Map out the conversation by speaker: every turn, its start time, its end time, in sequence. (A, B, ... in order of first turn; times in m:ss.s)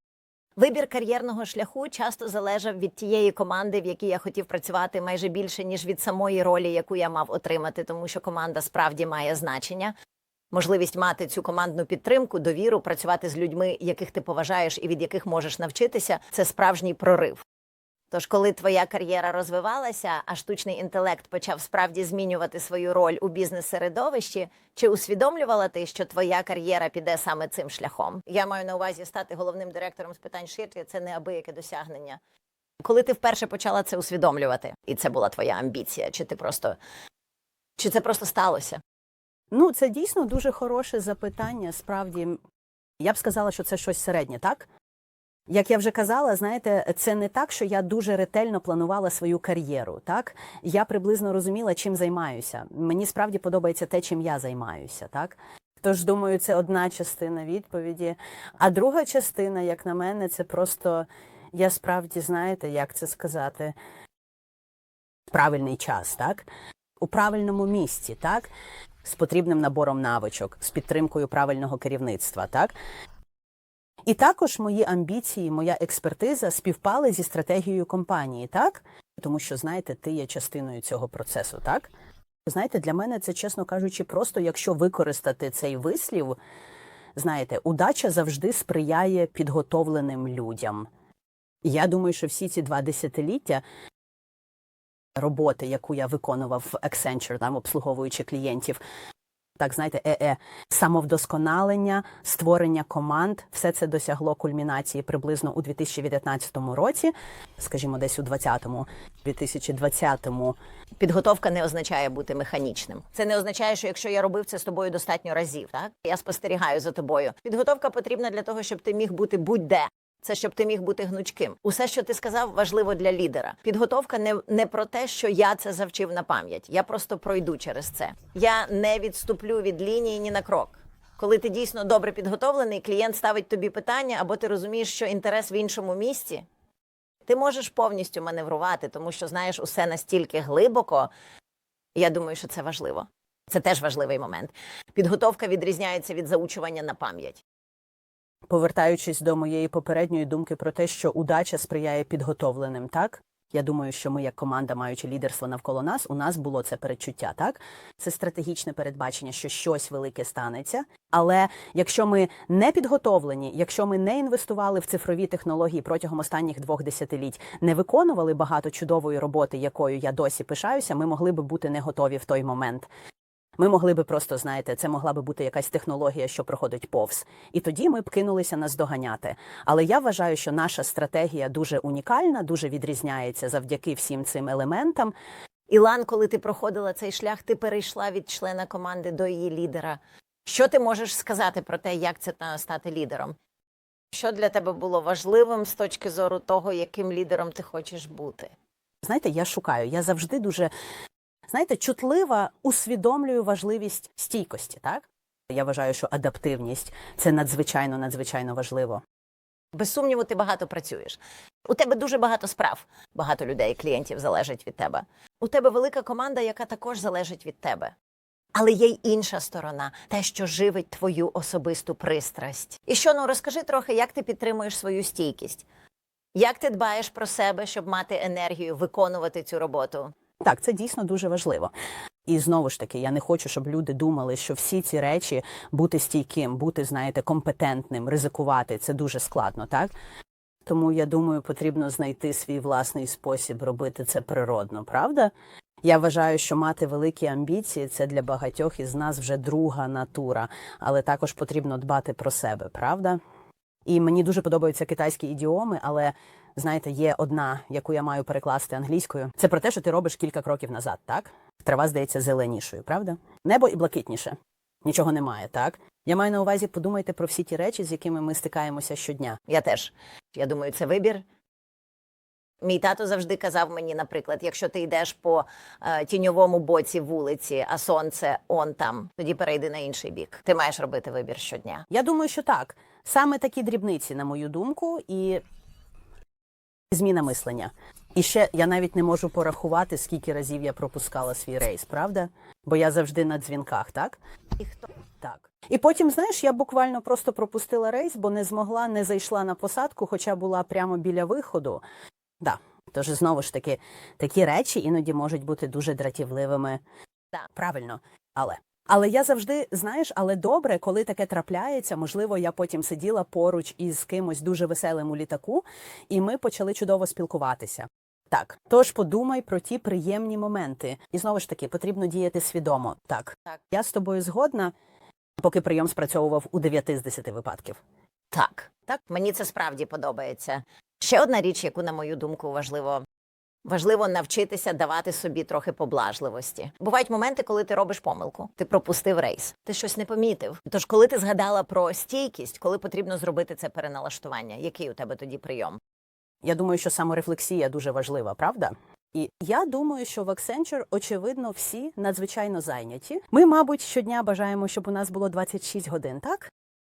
0:00.6-0:09.9 A
0:10.5-0:17.4 A
0:18.1-0:32.2 A
0:32.8-0:36.8 A
0:37.8-0:38.8 A
0:39.5-0:42.4 B
0:43.0-0:44.7 B
0:45.5-1:03.8 B
1:05.3-1:06.5 B
1:07.0-1:08.5 B
1:09.0-1:12.7 B
1:14.0-1:21.9 B
1:22.4-1:26.4 B
1:27.2-1:30.9 B
1:31.6-1:33.6 B
1:35.2-1:38.8 B
1:39.6-1:50.6 B
1:51.0-2:16.4 A
2:17.3-2:21.1 A
2:21.9-2:27.4 A
2:28.5-2:52.9 B
2:53.6-3:05.1 B
3:05.7-3:13.4 A
3:14.1-3:18.5 A
3:19.0-3:20.7 B
3:21.5-3:29.0 B
3:29.7-3:37.9 A
3:38.5-3:45.6 A
3:46.3-3:50.1 A
3:50.4-3:51.7 B
3:52.3-3:59.9 B
4:00.6-4:13.2 B
4:13.8-4:29.4 B
4:29.5-4:31.2 A
4:32.6-4:41.8 A
4:41.9-4:45.4 B
4:46.9-4:54.2 B
4:54.6-4:54.8 A
4:55.2-5:01.8 B
5:02.4-5:06.8 B
5:07.5-5:24.7 B
5:25.4-5:27.8 B
5:28.3-5:33.0 A
5:33.6-5:45.8 A
5:46.4-5:56.5 B